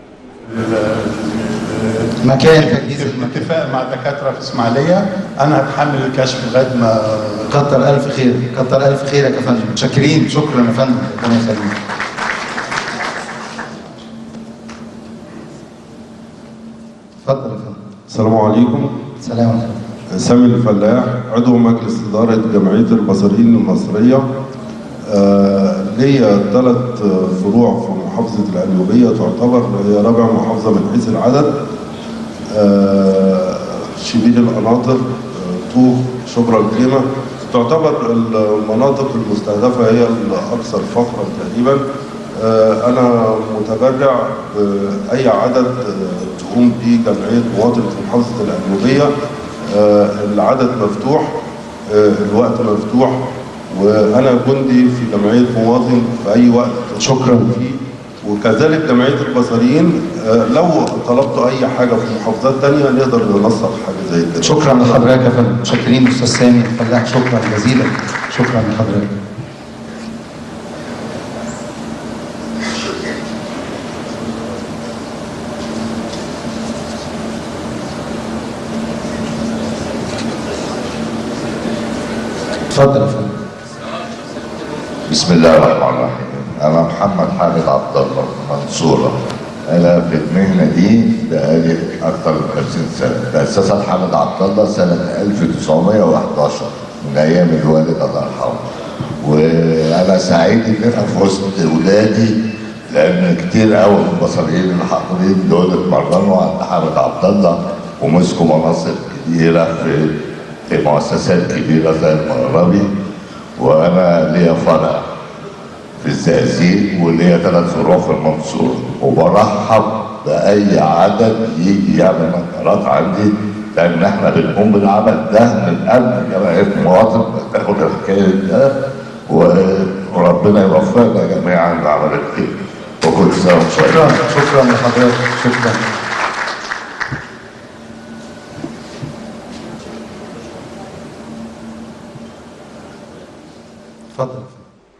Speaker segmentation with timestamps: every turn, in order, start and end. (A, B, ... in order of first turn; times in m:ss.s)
0:00.5-0:07.5 A
0:02.2-0:03.4 B
0:07.5-0:11.7 B
0:17.2-0:17.8 B
0:18.1-0:19.0 C
0:19.2-0:19.8 B
0:20.1-0:24.3 C
0:25.1-0:31.5 C
0:32.5-0:41.8 C
0:42.4-0:49.1 C
0:49.6-0:51.3 C
0:51.9-1:05.1 C
0:57.0-0:57.5 B
1:04.4-1:09.2 B
1:22.7-1:23.3 B
1:25.1-1:29.2 D
1:29.7-1:38.7 D
1:39.2-1:42.4 D
1:42.9-1:50.1 D
1:50.7-1:52.8 D
1:53.6-1:55.0 D
1:56.0-2:08.7 D
2:09.3-2:14.1 D
2:13.8-2:15.8 B
2:24.1-2:24.6 B